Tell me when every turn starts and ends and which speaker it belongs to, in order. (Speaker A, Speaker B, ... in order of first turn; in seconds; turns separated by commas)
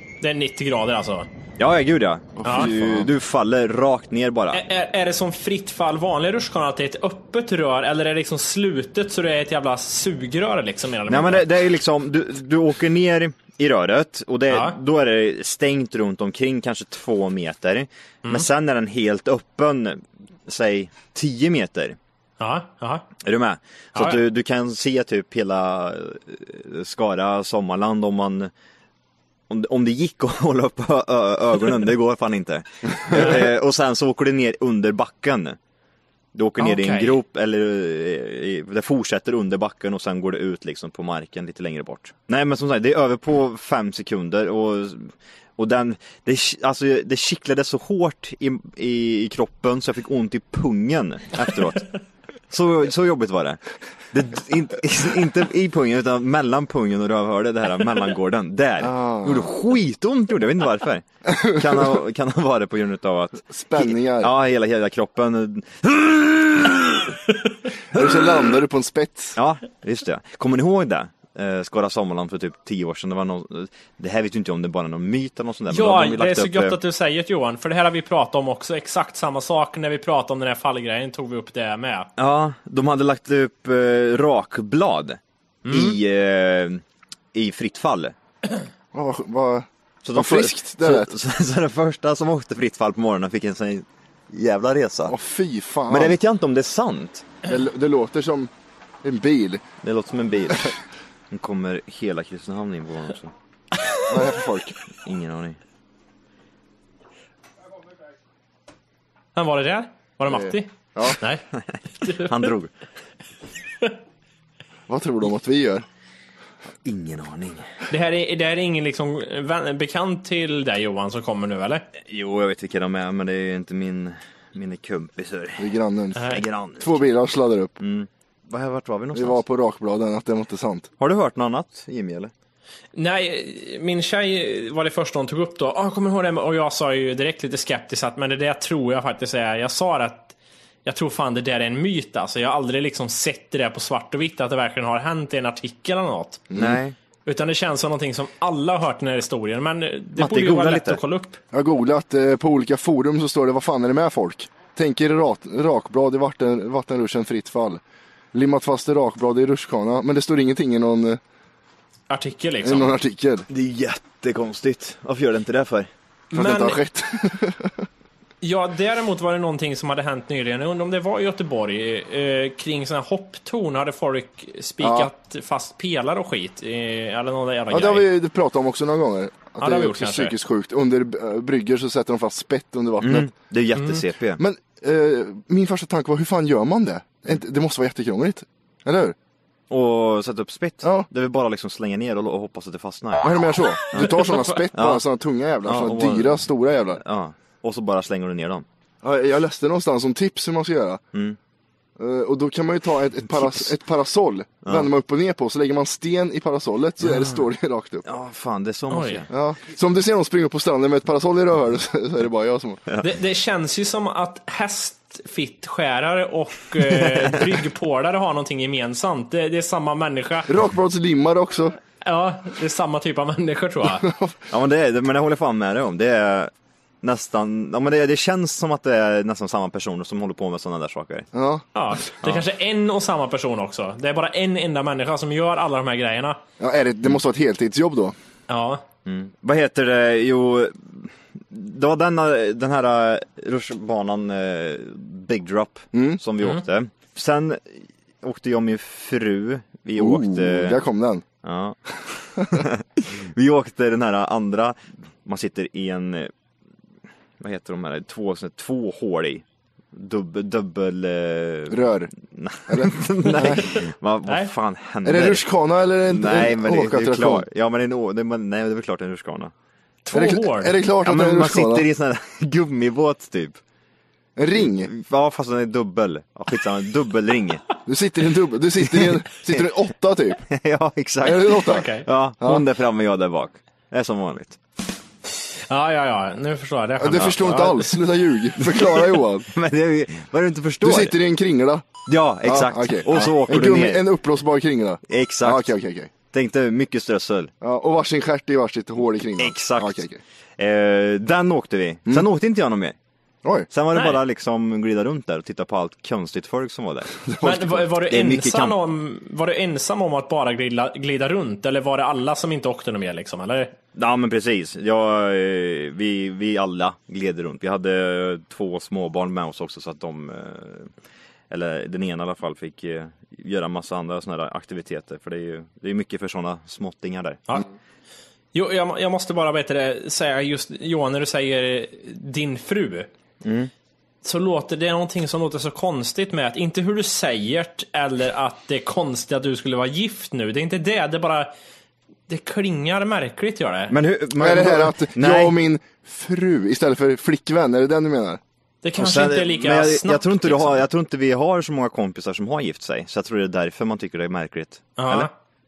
Speaker A: 0.2-1.3, Speaker B: 1.6-4.6, Speaker C: 2.4-3.1, Speaker A: 4.5-11.5, Speaker B: 11.1-22.0, Speaker A: 14.5-14.8, Speaker A: 22.4-23.1, Speaker B: 23.2-28.5, Speaker A: 24.0-24.2, Speaker B: 29.5-35.6, Speaker B: 36.3-51.9, Speaker A: 36.6-37.2, Speaker B: 52.5-53.6, Speaker B: 54.1-67.2, Speaker C: 58.8-59.5, Speaker C: 63.5-64.3, Speaker C: 67.9-69.4, Speaker B: 69.4-76.8, Speaker A: 75.7-82.1, Speaker B: 82.2-85.2, Speaker A: 85.7-86.0, Speaker B: 85.7-86.8, Speaker B: 87.3-88.1, Speaker C: 88.9-91.1, Speaker B: 90.0-95.2, Speaker C: 95.1-96.2, Speaker B: 95.9-97.3, Speaker C: 97.4-98.5, Speaker C: 99.0-99.6, Speaker B: 99.8-100.7, Speaker B: 101.3-103.3, Speaker C: 104.1-104.8, Speaker B: 105.0-105.6, Speaker A: 109.4-111.4, Speaker C: 110.3-111.2, Speaker B: 111.7-112.7, Speaker A: 112.0-112.3, Speaker C: 114.9-115.8, Speaker B: 116.8-117.7, Speaker A: 117.9-121.9, Speaker B: 122.0-125.7, Speaker C: 125.6-127.8, Speaker A: 126.2-126.4, Speaker B: 126.3-127.1, Speaker B: 127.8-129.4, Speaker C: 129.1-130.9, Speaker B: 131.0-132.3, Speaker A: 132.9-146.4, Speaker C: 146.5-146.8, Speaker B: 146.6-146.9, Speaker A: 147.3-151.4, Speaker B: 150.2-151.0, Speaker C: 151.5-157.8, Speaker C: 158.3-161.2, Speaker A: 162.1-162.9, Speaker C: 162.6-163.5, Speaker B: 163.5-165.9, Speaker C: 166.3-167.8, Speaker A: 166.3-166.8, Speaker A: 168.4-178.1, Speaker C: 174.8-175.1, Speaker C: 177.7-183.3, Speaker A: 179.6-180.3, Speaker B: 183.0-184.4, Speaker A: 183.8-184.0, Speaker C: 184.4-189.2, Speaker B: 189.7-195.0, Speaker C: 193.2-197.0, Speaker B: 195.7-196.4, Speaker B: 197.0-198.7, Speaker C: 199.0-201.0, Speaker C: 202.0-208.1, Speaker B: 203.4-203.7, Speaker B: 207.1-207.4, Speaker B: 208.1-209.3, Speaker A: 208.9-209.2, Speaker C: 209.3-212.8, Speaker A: 213.0-220.5, Speaker B: 216.8-217.6, Speaker C: 220.5-221.8, Speaker A: 222.0-224.1, Speaker C: 224.0-224.3, Speaker B: 224.5-226.5, Speaker B: 227.0-231.3, Speaker C: 231.3-231.6, Speaker A: 231.7-236.4, Speaker C: 236.6-238.2, Speaker A: 238.5-238.8, Speaker B: 239.1-250.8, Speaker C: 245.9-246.2, Speaker C: 250.0-251.2, Speaker B: 251.4-251.8, Speaker B: 252.4-256.3, Speaker B: 257.4-265.5, Speaker C: 261.7-262.1, Speaker C: 262.7-263.6, Speaker A: 264.3-264.5, Speaker C: 265.1-267.4, Speaker B: 266.1-269.5, Speaker A: 270.1-270.7, Speaker C: 270.1-271.9, Speaker B: 271.0-273.6, Speaker C: 274.4-274.9, Speaker B: 274.6-277.7, Speaker C: 277.9-280.4, Speaker B: 278.8-279.2, Speaker B: 280.5-284.6, Speaker C: 281.2-281.9, Speaker A: 281.7-282.1, Speaker A: 285.7-288.0, Speaker C: 287.0-289.5, Speaker B: 289.5-291.2, Speaker C: 290.8-291.9, Speaker B: 292.1-294.1, Speaker C: 292.4-296.1, Speaker B: 295.1-295.7, Speaker B: 296.3-297.5, Speaker C: 297.6-300.2, Speaker B: 299.4-300.0, Speaker B: 300.6-302.9, Speaker B: 303.7-307.1, Speaker A: 303.9-304.2, Speaker C: 307.3-307.9, Speaker A: 307.4-313.8, Speaker B: 308.1-308.8, Speaker B: 313.9-320.9, Speaker B: 321.5-327.4, Speaker A: 328.5-333.1, Speaker B: 333.4-333.7, Speaker A: 334.2-341.5, Speaker A: 342.3-343.9, Speaker B: 343.9-345.6, Speaker C: 344.4-348.4, Speaker A: 348.8-350.8, Speaker B: 349.0-355.3, Speaker A: 355.0-355.3